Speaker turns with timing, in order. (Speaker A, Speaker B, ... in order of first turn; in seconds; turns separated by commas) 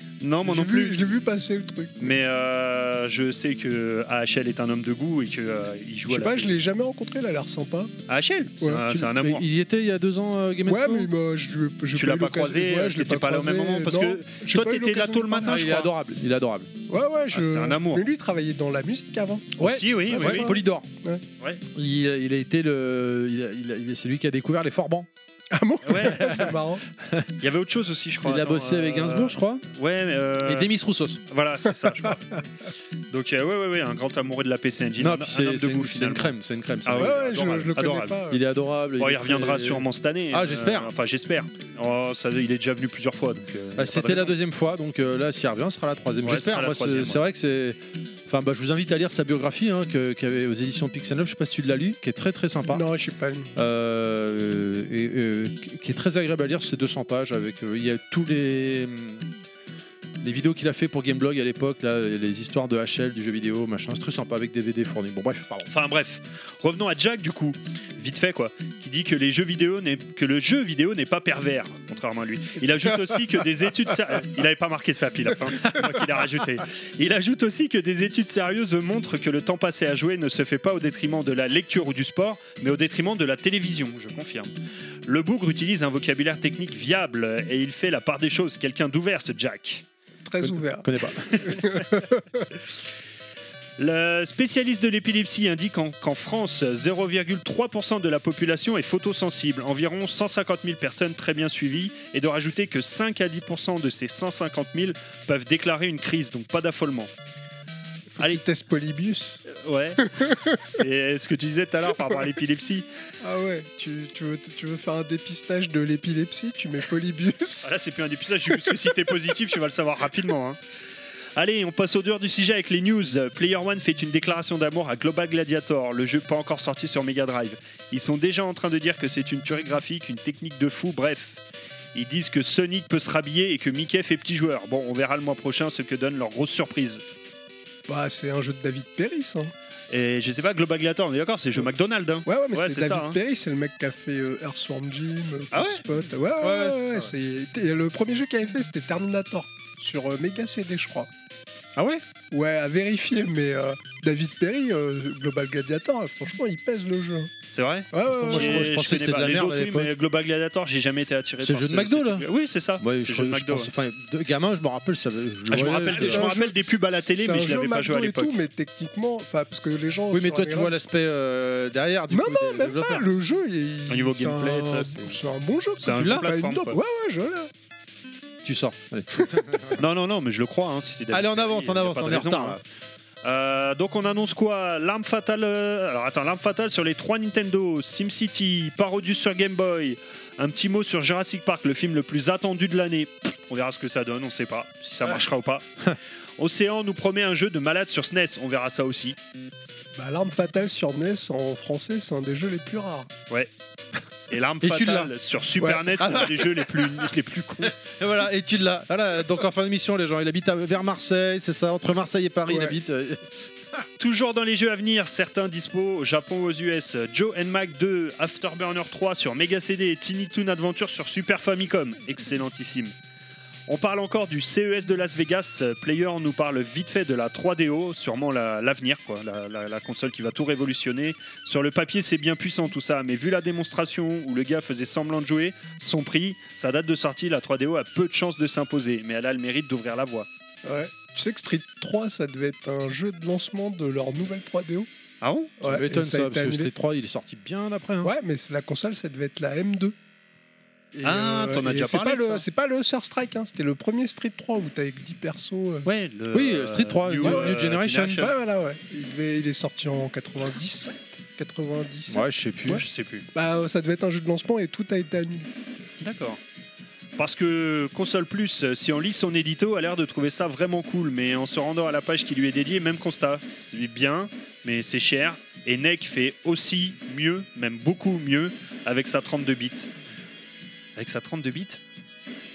Speaker A: 0.2-1.0, Speaker B: 0.4-2.1, Speaker A: 2.0-6.5, Speaker B: 6.1-7.9, Speaker A: 8.1-9.4, Speaker C: 8.8-11.1, Speaker B: 10.7-15.6, Speaker A: 11.9-15.9, Speaker C: 15.4-16.7, Speaker B: 16.9-21.2, Speaker A: 17.3-18.0, Speaker C: 19.6-20.9, Speaker A: 19.6-20.5, Speaker C: 21.7-25.1, Speaker B: 25.5-26.8, Speaker A: 25.8-26.5, Speaker C: 27.0-27.3, Speaker A: 27.4-30.7, Speaker C: 28.2-29.6, Speaker C: 30.4-31.2, Speaker A: 31.3-32.3, Speaker A: 33.1-36.3, Speaker C: 35.0-37.2, Speaker A: 36.8-38.1, Speaker B: 37.0-38.4, Speaker C: 38.3-40.9, Speaker A: 39.0-44.3, Speaker C: 43.8-52.8, Speaker A: 46.2-47.2, Speaker B: 52.7-53.5, Speaker C: 53.5-59.2, Speaker C: 60.2-65.7, Speaker A: 65.7-84.5, Speaker A: 85.0-89.8, Speaker B: 90.2-92.5, Speaker C: 90.4-91.5, Speaker A: 93.8-107.1, Speaker B: 108.1-109.4, Speaker A: 109.5-112.9, Speaker B: 110.2-110.6, Speaker B: 113.2-117.8, Speaker A: 117.6-120.6, Speaker A: 121.3-131.4, Speaker A: 131.9-137.0, Speaker B: 137.9-139.5, Speaker A: 139.9-143.2, Speaker B: 142.2-151.1, Speaker A: 145.5-145.8, Speaker C: 146.4-147.1, Speaker C: 151.8-152.0, Speaker B: 152.3-157.3, Speaker A: 157.5-163.7, Speaker B: 157.9-158.7, Speaker C: 158.1-159.9, Speaker C: 161.4-162.2, Speaker C: 162.8-166.3, Speaker A: 165.5-168.4, Speaker B: 165.9-170.8, Speaker C: 170.1-173.1, Speaker B: 172.1-177.5, Speaker A: 173.9-175.2, Speaker A: 175.8-176.8, Speaker C: 176.0-176.2, Speaker C: 178.4-179.8, Speaker A: 179.8-182.6, Speaker C: 181.1-182.6, Speaker A: 183.2-195.7, Speaker A: 196.4-199.2, Speaker B: 199.9-203.1, Speaker A: 204.3-207.7, Speaker C: 204.6-205.1, Speaker B: 205.6-206.0, Speaker C: 206.0-207.1, Speaker C: 207.6-213.8, Speaker B: 212.5-212.8, Speaker A: 214.0-222.9, Speaker A: 223.7-240.3, Speaker B: 240.6-244.9, Speaker A: 245.2-245.5, Speaker B: 245.6-246.7, Speaker C: 245.6-248.1, Speaker B: 248.0-249.9, Speaker B: 250.9-255.9, Speaker A: 251.0-252.4, Speaker A: 255.8-258.3, Speaker C: 256.3-258.2, Speaker B: 257.2-257.5, Speaker B: 258.2-262.8, Speaker C: 262.1-262.8, Speaker A: 262.7-263.2, Speaker B: 263.3-265.5, Speaker A: 266.0-266.4, Speaker A: 267.2-279.9, Speaker A: 281.0-281.8